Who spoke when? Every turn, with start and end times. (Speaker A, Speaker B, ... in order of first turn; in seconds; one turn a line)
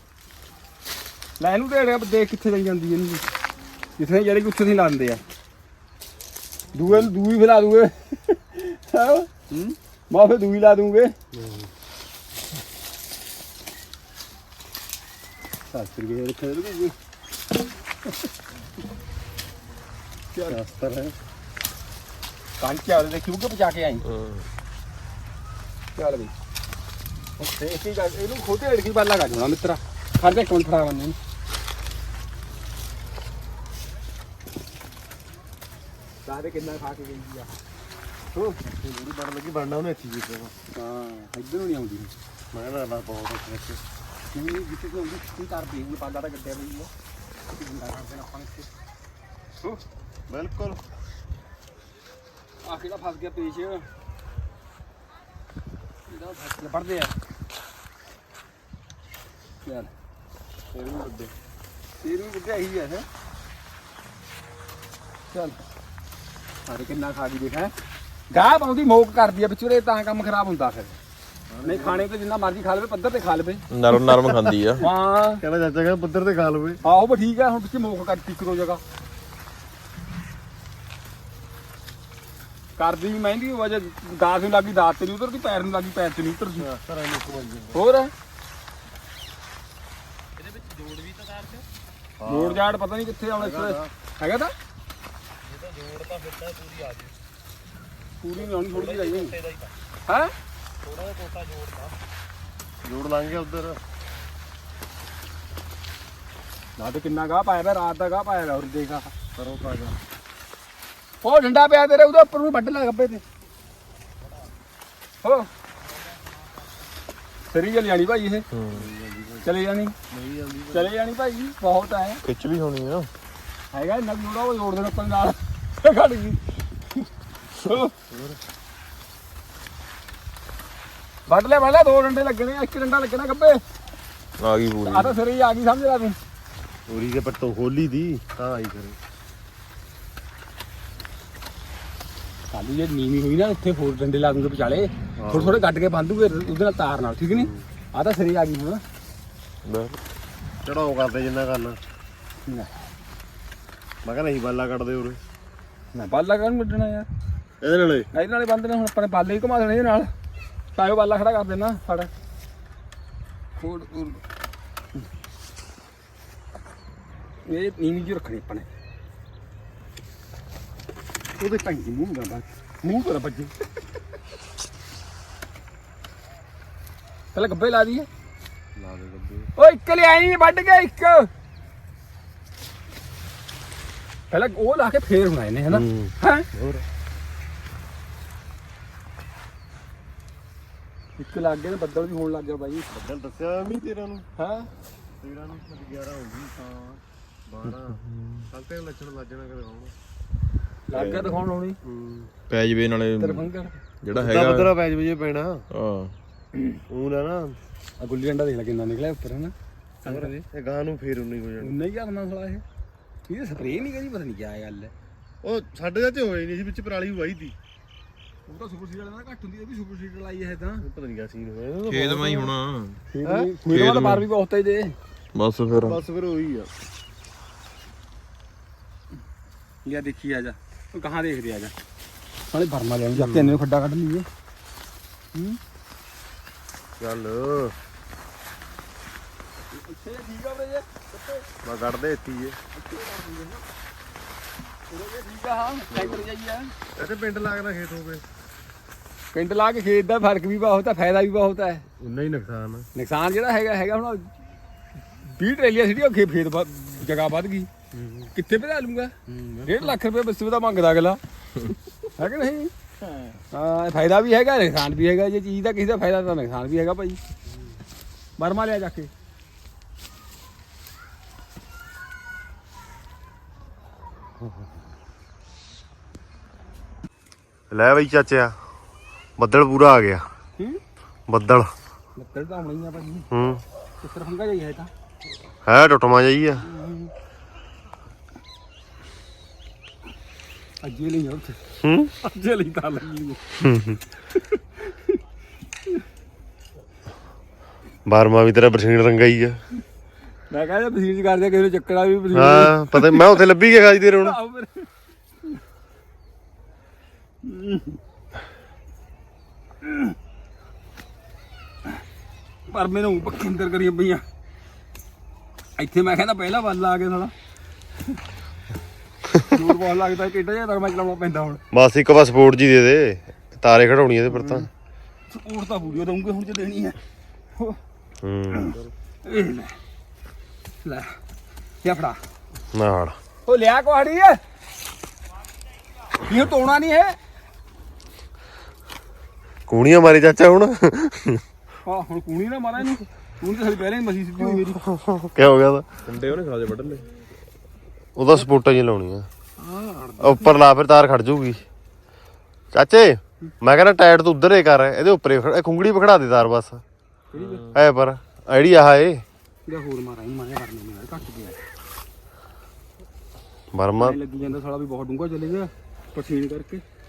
Speaker A: 1.4-3.3
Speaker A: 4.0-5.2
Speaker A: 6.7-9.5
Speaker A: 10.1-11.1
Speaker B: 11.3-11.7
Speaker A: 15.7-16.9
Speaker A: 20.3-20.6
Speaker B: 20.5-21.2
Speaker A: 22.6-24.1
Speaker C: 24.1-24.5
Speaker A: 26.0-26.3
Speaker A: 27.4-31.2
Speaker A: 36.3-37.5
Speaker B: 38.3-40.5
Speaker A: 40.8-42.1
Speaker B: 42.5-43.8
Speaker A: 44.3-46.9
Speaker A: 47.5-48.7
Speaker B: 50.3-50.8
Speaker A: 52.6-53.9
Speaker A: 56.1-57.1
Speaker A: 59.6-59.9
Speaker B: 60.7-61.3
Speaker A: 62.0-63.1
Speaker A: 65.3-65.6
Speaker A: 66.7-67.7
Speaker A: 68.3-71.0
Speaker B: 71.5-72.1
Speaker A: 71.6-73.6
Speaker C: 73.7-74.8
Speaker B: 73.9-74.6
Speaker A: 74.8-75.4
Speaker B: 75.4-76.8
Speaker A: 76.8-78.8
Speaker A: 82.8-86.7
Speaker B: 86.5-87.8
Speaker A: 87.7-88.1
Speaker B: 92.2-92.7
Speaker A: 92.2-94.5
Speaker B: 93.4-93.9
Speaker B: 95.4-97.1
Speaker A: 98.2-99.4
Speaker B: 98.4-99.7
Speaker B: 100.8-102.0
Speaker B: 102.8-103.8
Speaker A: 106.8-109.1
Speaker B: 109.4-110.0
Speaker A: 111.2-113.2
Speaker A: 115.2-115.5
Speaker A: 117.5-118.5
Speaker C: 118.5-118.9
Speaker B: 118.7-119.5
Speaker A: 119.4-120.0
Speaker B: 120.1-120.9
Speaker A: 120.7-122.2
Speaker C: 122.2-123.1
Speaker A: 123.7-127.9
Speaker B: 128.1-128.4
Speaker A: 131.3-133.6
Speaker C: 134.4-135.2
Speaker A: 134.8-136.2
Speaker B: 136.9-139.0
Speaker A: 142.5-148.8
Speaker B: 145.2-145.7
Speaker B: 147.3-147.7
Speaker C: 149.7-150.0
Speaker B: 150.6-151.8
Speaker A: 152.5-152.7
Speaker B: 154.0-155.2
Speaker A: 155.9-157.1
Speaker B: 157.6-158.1
Speaker A: 158.1-160.1
Speaker A: 160.8-162.1
Speaker A: 163.6-164.2
Speaker A: 167.5-168.7
Speaker A: 171.4-173.5
Speaker A: 177.3-178.1
Speaker B: 178.8-179.5
Speaker A: 179.6-181.3
Speaker A: 184.3-186.5
Speaker B: 185.7-186.8
Speaker A: 191.2-192.9
Speaker B: 192.9-194.2
Speaker A: 194.4-194.7
Speaker B: 195.2-196.6
Speaker A: 196.6-197.0
Speaker B: 197.5-199.9
Speaker C: 197.7-198.5
Speaker A: 200.9-201.8
Speaker C: 200.9-201.4
Speaker B: 201.8-202.3
Speaker C: 202.5-203.5
Speaker A: 203.2-203.8
Speaker C: 204.0-204.7
Speaker B: 204.1-205.7
Speaker C: 205.7-206.1
Speaker B: 206.9-207.6
Speaker A: 208.0-210.4
Speaker B: 210.1-211.8
Speaker A: 211.6-212.6
Speaker A: 213.3-214.9
Speaker B: 215.4-217.6
Speaker A: 218.5-220.8
Speaker B: 220.8-222.5
Speaker C: 221.9-223.0
Speaker A: 223.1-225.0
Speaker B: 223.2-223.5
Speaker C: 223.7-224.3
Speaker C: 225.3-226.0
Speaker B: 225.7-226.7
Speaker A: 229.8-231.7
Speaker A: 232.5-234.3
Speaker B: 233.1-233.6
Speaker A: 235.3-235.6
Speaker B: 237.0-237.8
Speaker A: 239.7-241.5
Speaker B: 241.6-242.6
Speaker A: 242.7-243.7
Speaker A: 244.9-246.7
Speaker B: 245.9-246.3
Speaker B: 247.0-248.2
Speaker A: 249.3-251.8
Speaker B: 252.0-252.9
Speaker A: 252.9-254.3
Speaker A: 255.2-257.7
Speaker B: 257.9-258.3
Speaker A: 258.4-259.1
Speaker B: 259.3-260.0
Speaker A: 259.7-261.2
Speaker A: 262.2-262.7
Speaker A: 263.5-267.2
Speaker A: 268.4-269.1
Speaker B: 277.7-278.6
Speaker B: 279.4-280.2
Speaker B: 281.3-281.7
Speaker A: 282.2-283.3
Speaker B: 283.3-283.6
Speaker A: 284.0-284.9
Speaker B: 285.6-286.7
Speaker A: 286.6-287.1
Speaker A: 290.8-291.6
Speaker B: 291.8-292.1
Speaker A: 292.2-293.6
Speaker B: 293.6-294.0
Speaker A: 294.3-295.2
Speaker B: 298.1-299.6
Speaker A: 300.5-303.5
Speaker B: 302.3-304.4
Speaker A: 304.2-304.9
Speaker A: 307.4-308.0
Speaker A: 309.8-310.1
Speaker A: 312.7-314.2
Speaker A: 315.8-317.3
Speaker A: 319.4-321.6
Speaker B: 321.7-324.7
Speaker A: 324.3-324.7
Speaker A: 325.3-327.0
Speaker B: 328.2-328.9
Speaker A: 328.6-329.8
Speaker A: 330.8-331.2
Speaker A: 331.8-332.2
Speaker B: 332.7-333.2
Speaker A: 333.5-334.4
Speaker A: 336.2-337.2
Speaker B: 339.7-341.4
Speaker A: 341.9-344.8
Speaker B: 344.4-345.9
Speaker C: 346.1-347.1
Speaker B: 348.2-349.3
Speaker A: 349.6-350.6
Speaker B: 350.2-351.6
Speaker B: 352.7-356.8
Speaker A: 357.3-357.6
Speaker C: 357.4-357.8
Speaker B: 357.7-359.2
Speaker A: 359.7-361.6
Speaker B: 363.7-364.2
Speaker A: 364.0-366.8